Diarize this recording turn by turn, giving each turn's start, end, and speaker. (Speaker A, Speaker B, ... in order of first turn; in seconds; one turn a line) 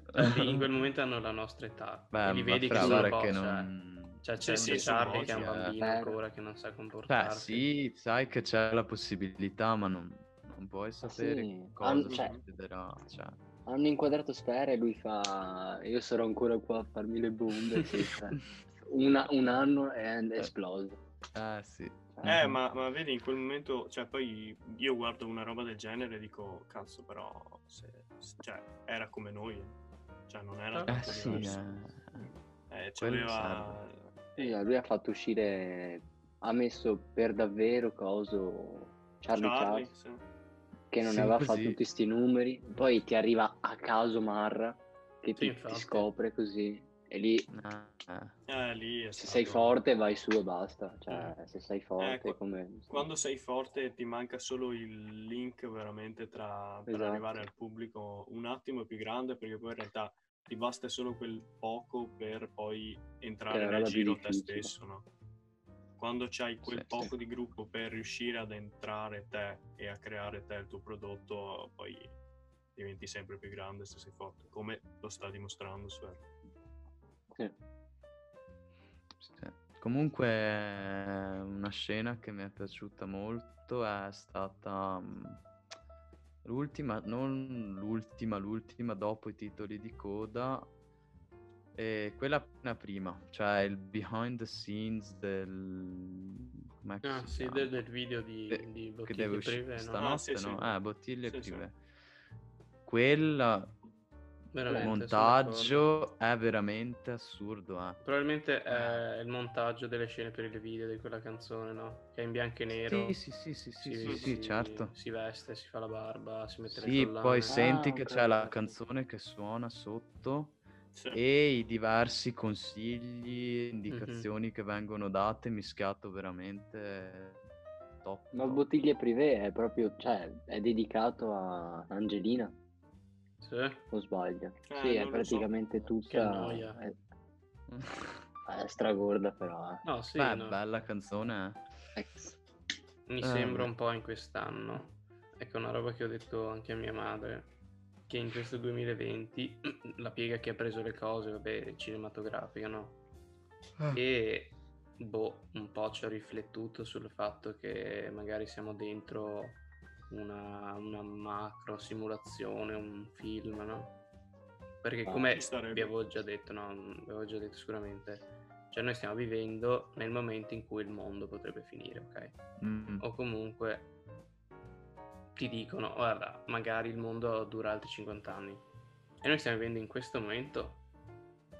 Speaker A: 0.1-0.7
Speaker B: 0.2-3.7
Speaker A: 2.1-5.8
Speaker C: 2.8-3.1
Speaker B: 4.2-7.7
Speaker D: 4.4-5.5
Speaker C: 5.8-6.2
Speaker A: 7.1-13.4
Speaker C: 11.0-12.4
Speaker D: 12.1-12.4
Speaker C: 13.7-21.0
Speaker A: 21.4-22.6
Speaker D: 22.2-29.8
Speaker D: 30.3-31.6
Speaker B: 30.7-31.5
Speaker A: 30.9-32.3
Speaker D: 32.7-34.1
Speaker A: 33.0-33.8
Speaker C: 34.4-39.9
Speaker D: 39.3-40.2
Speaker C: 40.9-47.5
Speaker A: 41.0-41.8
Speaker B: 45.4-46.1
Speaker A: 47.5-48.3
Speaker D: 48.5-49.8
Speaker C: 49.2-53.1
Speaker D: 52.0-52.4
Speaker D: 52.9-65.1
Speaker C: 56.9-57.5
Speaker C: 63.5-64.7
Speaker D: 66.0-72.1
Speaker A: 66.7-67.0
Speaker D: 72.8-76.2
Speaker A: 79.2-85.4
Speaker A: 86.4-90.7
Speaker A: 91.7-97.8
Speaker B: 97.0-100.1
Speaker A: 98.5-101.8
Speaker D: 100.0-101.7
Speaker A: 102.8-103.7
Speaker B: 104.5-105.9
Speaker A: 104.7-108.0
Speaker B: 108.0-113.2
Speaker A: 112.9-114.9
Speaker B: 113.8-117.6
Speaker D: 114.0-114.3
Speaker A: 116.7-120.6
Speaker C: 117.5-118.7
Speaker D: 120.9-121.2
Speaker A: 121.1-127.4
Speaker B: 123.9-124.3
Speaker A: 128.0-128.6
Speaker C: 128.3-132.6
Speaker B: 133.4-133.8
Speaker C: 133.9-136.9
Speaker D: 134.7-135.5
Speaker B: 136.1-136.8
Speaker A: 137.7-138.1
Speaker C: 138.5-139.8
Speaker B: 139.8-140.6
Speaker A: 140.2-141.6
Speaker C: 142.0-142.4
Speaker B: 143.1-147.5
Speaker A: 143.2-143.7
Speaker B: 148.1-153.0
Speaker B: 153.9-163.9
Speaker B: 164.8-172.4
Speaker D: 165.3-165.9
Speaker A: 172.6-173.0
Speaker B: 173.0-173.9
Speaker B: 175.3-178.6
Speaker B: 179.2-180.8